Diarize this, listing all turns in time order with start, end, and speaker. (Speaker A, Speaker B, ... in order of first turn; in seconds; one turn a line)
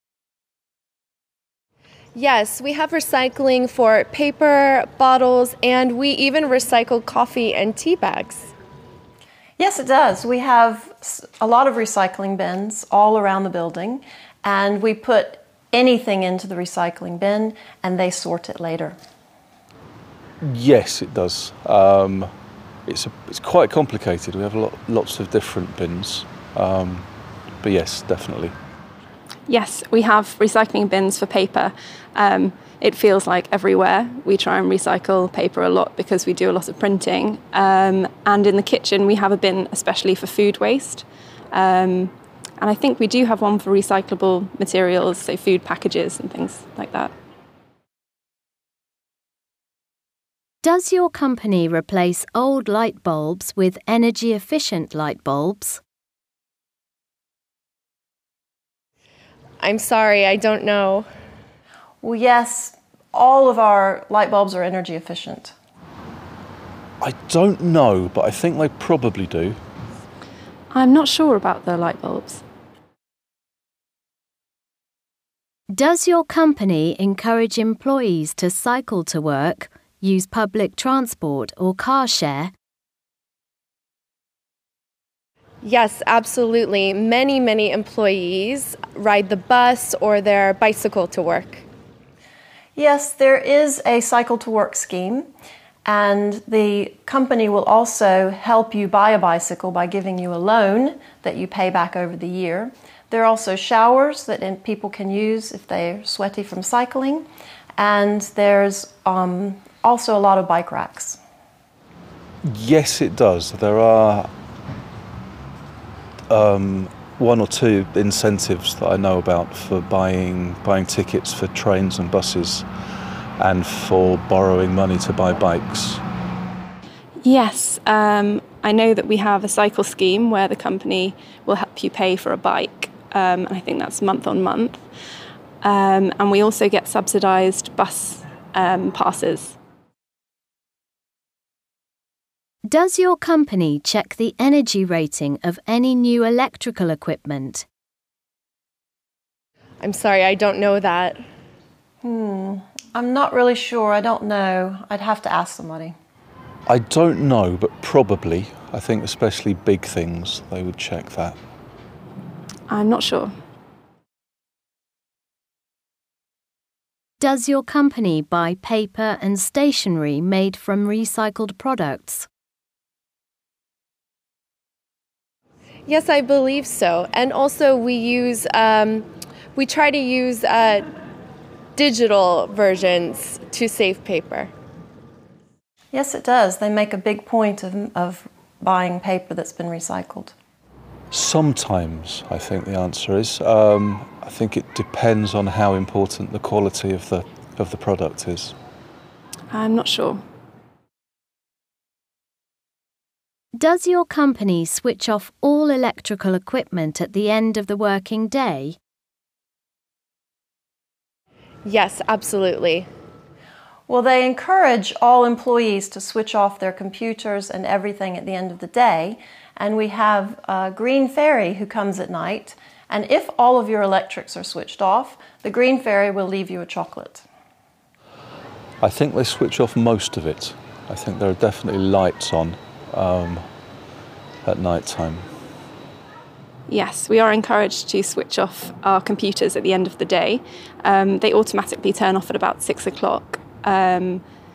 Speaker A: 2.1-8.5
Speaker B: 9.6-19.0
Speaker C: 20.4-22.3
Speaker C: 22.9-27.1
Speaker C: 27.6-28.6
Speaker D: 29.5-47.1
Speaker E: 50.6-55.8
Speaker A: 59.6-61.1
Speaker B: 62.0-65.5
Speaker C: 67.0-69.6
Speaker D: 70.7-72.4
Speaker E: 75.7-82.5
Speaker A: 85.6-91.7
Speaker B: 92.8-95.3
Speaker B: 95.8-107.3
Speaker B: 107.8-111.2
Speaker C: 112.5-114.3
Speaker C: 116.3-122.7
Speaker C: 123.4-126.0
Speaker D: 127.2-134.8
Speaker D: 135.6-139.6
Speaker E: 142.7-147.7
Speaker A: 149.8-151.2
Speaker B: 152.0-156.0
Speaker C: 156.7-161.4
Speaker D: 162.7-163.3
Speaker E: 167.2-172.3
Speaker A: 175.9-180.9
Speaker A: 181.8-184.5
Speaker B: 185.9-190.3
Speaker C: 191.1-198.6
Speaker D: 199.5-200.2
Speaker E: 203.6-208.8
Speaker A: 211.6-212.9
Speaker B: 213.9-227.2
Speaker C: 228.8-233.5
Speaker C: 234.4-235.3
Speaker D: 236.7-244.2